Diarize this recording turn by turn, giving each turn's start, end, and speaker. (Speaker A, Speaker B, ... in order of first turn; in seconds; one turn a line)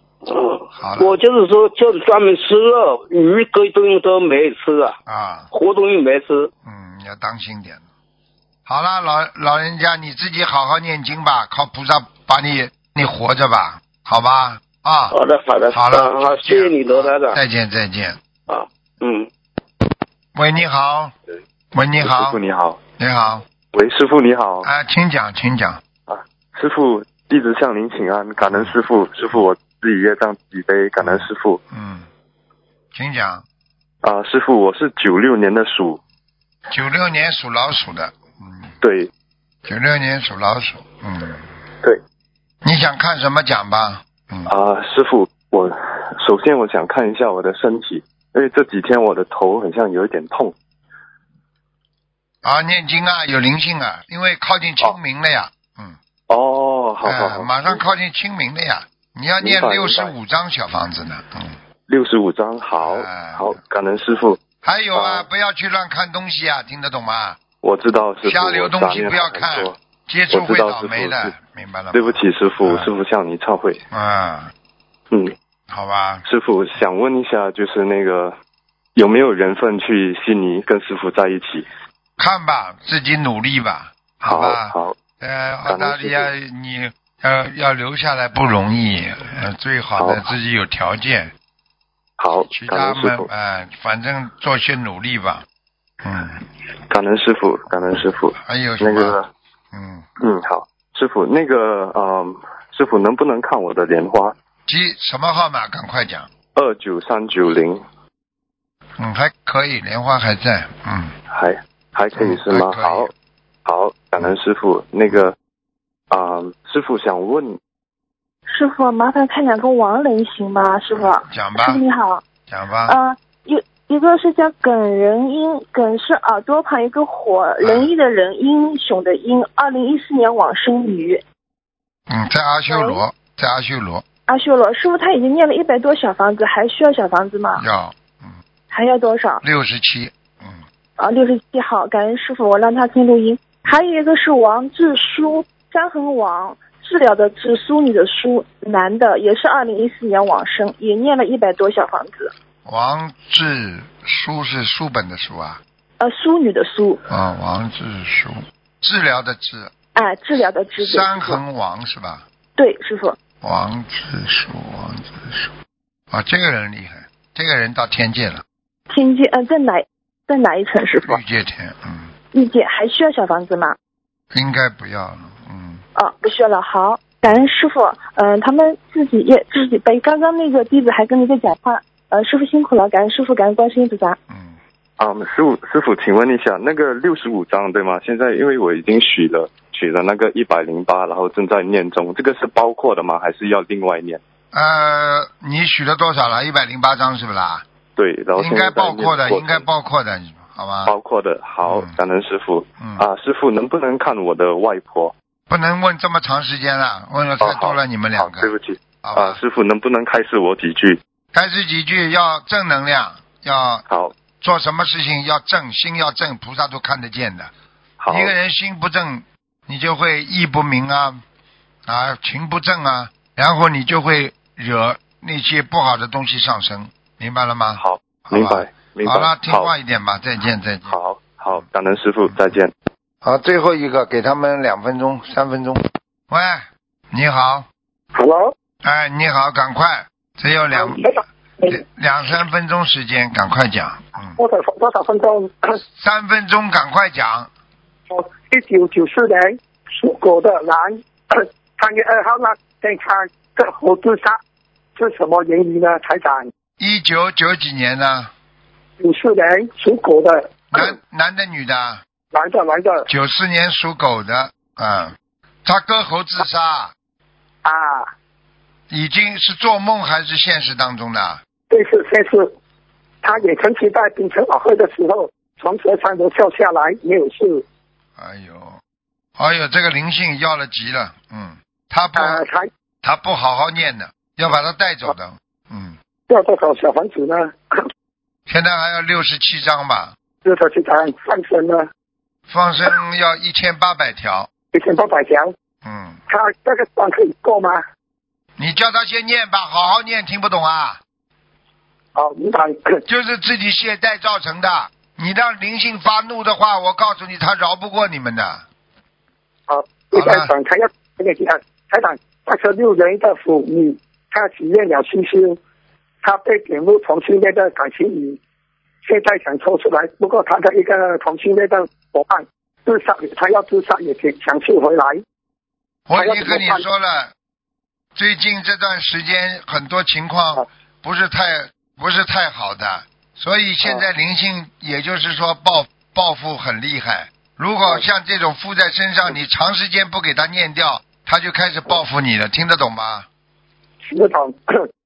Speaker A: 0.2-5.0
Speaker B: 0.8-1.2
Speaker B: 5.0-5.5
Speaker A: 5.5-6.5
Speaker B: 6.6-7.8
Speaker B: 8.7-15.2
Speaker A: 15.1-17.4
Speaker B: 15.7-18.2
Speaker A: 18.5-19.3
Speaker B: 20.3-21.1
Speaker B: 21.7-22.4
Speaker C: 22.0-22.8
Speaker B: 23.0-23.4
Speaker C: 23.7-24.7
Speaker B: 24.6-25.8
Speaker C: 26.1-31.6
Speaker B: 31.0-32.1
Speaker B: 32.9-33.4
Speaker C: 34.0-36.0
Speaker B: 36.7-38.7
Speaker C: 38.8-39.1
Speaker B: 39.6-41.4
Speaker B: 42.6-44.5
Speaker C: 44.5-50.5
Speaker B: 52.4-56.0
Speaker C: 56.3-57.9
Speaker B: 57.0-61.5
Speaker C: 59.4-60.1
Speaker C: 61.9-64.4
Speaker B: 62.8-63.6
Speaker B: 64.6-67.4
Speaker C: 64.9-65.3
Speaker C: 67.6-69.8
Speaker B: 68.2-72.9
Speaker C: 70.3-71.3
Speaker C: 71.9-73.8
Speaker B: 73.9-74.5
Speaker C: 75.1-75.3
Speaker B: 75.7-76.2
Speaker C: 76.2-78.3
Speaker C: 78.9-81.7
Speaker B: 82.2-91.3
Speaker C: 84.2-85.0
Speaker C: 85.6-86.3
Speaker C: 90.0-90.3
Speaker C: 92.2-93.3
Speaker B: 92.5-95.4
Speaker B: 96.0-96.4
Speaker C: 96.9-99.3
Speaker B: 98.4-99.2
Speaker B: 99.7-100.0
Speaker C: 100.2-104.3
Speaker B: 104.7-106.3
Speaker C: 106.5-107.8
Speaker B: 109.0-111.1
Speaker C: 111.3-113.1
Speaker B: 112.2-113.1
Speaker C: 113.7-115.3
Speaker C: 116.1-117.6
Speaker D: 118.5-122.2
Speaker B: 120.9-121.8
Speaker B: 122.5-123.0
Speaker D: 122.9-131.2
Speaker B: 127.6-127.9
Speaker B: 132.1-134.0
Speaker D: 132.7-133.0
Speaker D: 134.3-137.6
Speaker B: 137.6-138.3
Speaker D: 138.7-139.4
Speaker B: 139.4-140.6
Speaker D: 141.0-152.3
Speaker B: 152.6-155.6
Speaker D: 156.0-157.0
Speaker B: 157.1-159.7
Speaker D: 159.9-161.4
Speaker B: 160.8-162.2
Speaker D: 162.6-163.2
Speaker B: 163.4-165.5
Speaker B: 166.1-168.4
Speaker D: 168.9-171.2
Speaker B: 171.0-172.1
Speaker D: 172.3-173.8
Speaker B: 174.3-175.8
Speaker D: 175.9-184.2
Speaker B: 184.3-184.6
Speaker C: 185.0-194.2
Speaker B: 194.5-197.6
Speaker C: 197.9-199.7
Speaker B: 198.4-200.9
Speaker C: 200.8-205.1
Speaker B: 201.6-202.0
Speaker B: 202.8-203.1
Speaker B: 205.5-208.5
Speaker C: 207.4-211.0
Speaker B: 209.0-209.4
Speaker B: 211.3-213.8
Speaker C: 213.9-214.1
Speaker B: 214.4-217.5
Speaker C: 218.0-218.3
Speaker B: 218.1-221.2
Speaker B: 221.9-230.9
Speaker C: 227.8-229.7
Speaker C: 230.9-232.7
Speaker B: 233.2-237.7
Speaker E: 238.1-238.5
Speaker B: 238.8-241.1
Speaker E: 240.7-241.2
Speaker B: 241.7-244.4
Speaker E: 244.4-245.8
Speaker B: 246.0-247.5
Speaker E: 248.1-254.3
Speaker E: 254.9-256.5
Speaker B: 256.8-258.3
Speaker E: 259.0-260.9
Speaker B: 260.7-262.0
Speaker E: 262.3-263.1
Speaker B: 263.1-266.9
Speaker E: 267.6-268.1
Speaker B: 268.9-271.4
Speaker E: 271.7-272.5
Speaker E: 273.2-277.6
Speaker B: 278.2-278.8
Speaker B: 279.4-282.4
Speaker E: 282.2-282.7
Speaker B: 283.0-286.0
Speaker E: 286.3-287.5
Speaker B: 288.5-290.1
Speaker E: 290.4-291.9
Speaker B: 292.5-294.5
Speaker E: 294.7-295.5
Speaker B: 295.8-296.2
Speaker E: 296.3-297.8
Speaker B: 298.6-301.0
Speaker E: 302.1-303.0
Speaker B: 303.1-308.6
Speaker E: 309.7-315.6
Speaker B: 310.1-310.5
Speaker E: 316.2-318.4
Speaker E: 319.0-325.2
Speaker B: 326.1-327.3
Speaker E: 326.2-326.8
Speaker B: 328.1-343.3
Speaker E: 344.0-344.8